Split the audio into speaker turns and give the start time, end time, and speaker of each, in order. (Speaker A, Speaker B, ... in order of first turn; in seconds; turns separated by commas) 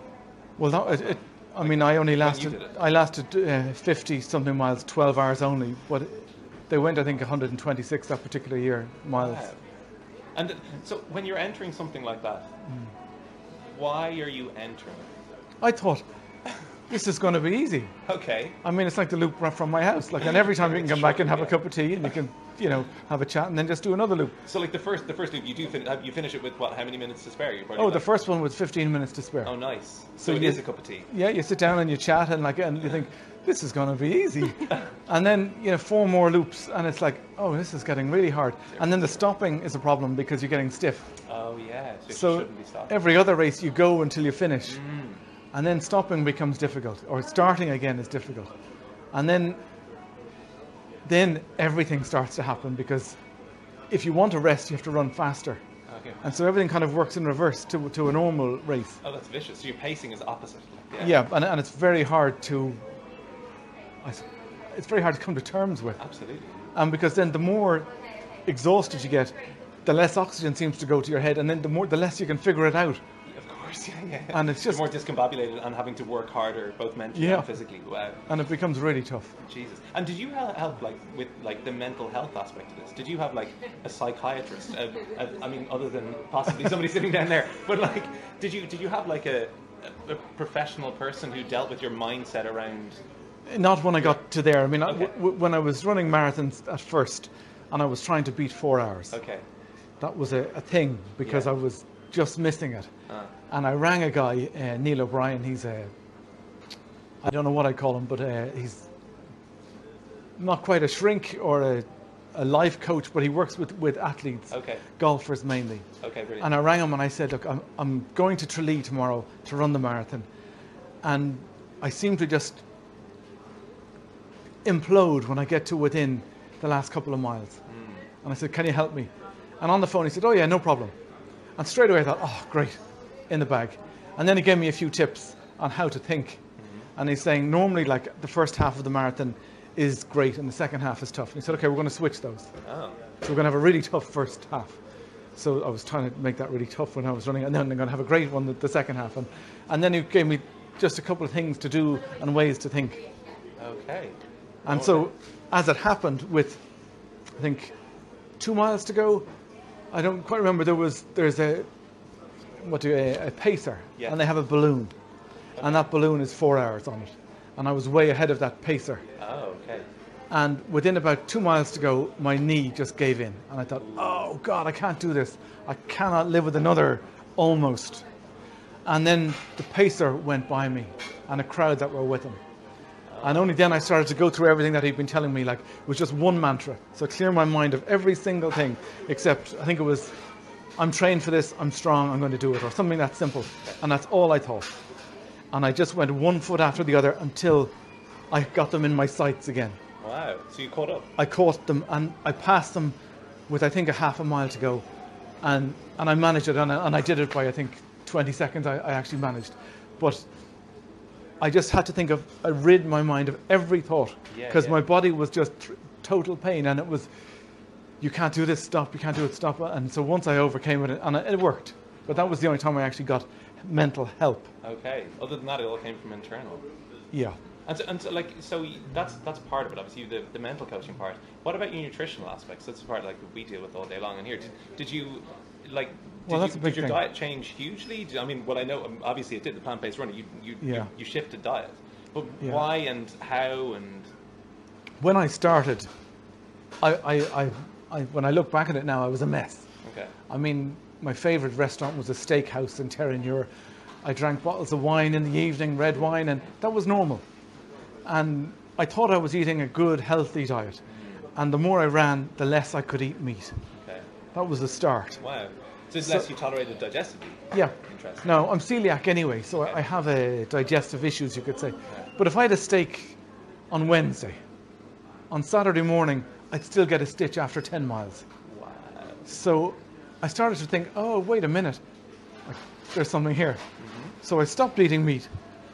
Speaker A: 0.6-9.4, Speaker B: 0.8-2.8, Speaker B: 9.1-9.6, Speaker B: 10.3-12.5, Speaker A: 12.7-12.9, Speaker B: 13.7-15.1, Speaker A: 15.6-16.0, Speaker A: 16.9-17.9, Speaker B: 18.0-18.6, Speaker A: 18.6-24.3, Speaker B: 20.2-21.9, Speaker B: 24.4-28.1, Speaker A: 27.8-29.6, Speaker B: 29.4-31.1, Speaker A: 30.2-41.1, Speaker B: 38.7-39.2, Speaker B: 41.2-43.0, Speaker A: 42.1-44.8, Speaker B: 44.7-45.2, Speaker A: 45.5-48.5, Speaker A: 49.1-49.6, Speaker A: 51.0-53.2, Speaker A: 53.9-55.6, Speaker B: 55.9-56.4, Speaker A: 56.2-59.0, Speaker B: 59.0-61.2, Speaker A: 61.0-62.8, Speaker A: 64.0-66.0, Speaker B: 66.0-66.6, Speaker A: 66.7-67.9, Speaker A: 68.4-73.0, Speaker B: 73.3-78.2, Speaker A: 74.3-74.9, Speaker A: 77.1-77.5, Speaker A: 78.3-79.3, Speaker B: 79.4-93.0, Speaker A: 93.5-99.1, Speaker B: 94.8-95.1, Speaker B: 99.1-99.4, Speaker A: 100.0-102.9, Speaker B: 101.2-101.5, Speaker A: 103.5-105.9, Speaker A: 107.2-108.9, Speaker A: 110.4-115.8, Speaker B: 114.5-114.8, Speaker B: 116.0-116.5, Speaker A: 116.4-120.3, Speaker A: 121.0-122.6, Speaker A: 124.6-127.6, Speaker B: 127.7-128.0, Speaker A: 128.2-130.9, Speaker A: 131.6-132.8, Speaker A: 133.3-136.4, Speaker B: 136.6-136.8, Speaker A: 136.9-142.5, Speaker B: 142.6-143.0, Speaker A: 143.2-144.8, Speaker A: 145.3-153.0, Speaker B: 153.6-155.1, Speaker A: 154.6-156.6, Speaker A: 157.4-157.7, Speaker A: 158.4-159.3, Speaker A: 159.9-161.7, Speaker A: 162.6-164.9, Speaker B: 165.6-165.9, Speaker A: 165.6-169.0, Speaker B: 169.2-169.8, Speaker A: 170.3-178.0, Speaker B: 173.8-174.1, Speaker A: 178.8-182.4, Speaker B: 183.1-183.5, Speaker A: 183.2-190.1, Speaker A: 190.8-194.8, Speaker A: 195.5-197.7, Speaker A: 198.3-199.8, Speaker B: 200.0-201.1, Speaker A: 201.2-202.9, Speaker A: 203.5-204.8, Speaker A: 205.4-210.2, Speaker A: 211.4-217.1, Speaker B: 214.3-214.8, Speaker A: 218.0-224.5, Speaker B: 224.6-226.6, Speaker A: 227.1-227.4, Speaker B: 227.7-244.1, Speaker A: 236.3-237.0, Speaker A: 240.6-240.9, Speaker A: 242.4-242.7, Speaker A: 245.0-245.9, Speaker A: 246.8-249.7, Speaker B: 249.8-250.1, Speaker A: 250.3-253.5, Speaker A: 254.0-257.2, Speaker A: 258.0-260.8, Speaker B: 260.9-261.2, Speaker A: 261.3-263.6, Speaker B: 263.7-264.0, Speaker A: 264.3-265.2, Speaker B: 265.2-268.4, Speaker A: 266.0-266.3, Speaker A: 267.5-273.2, Speaker A: 273.7-274.4, Speaker A: 275.3-278.2, Speaker B: 278.5-279.2, Speaker A: 279.2-281.8, Speaker A: 282.4-283.6, Speaker B: 283.8-284.1, Speaker A: 284.2-285.3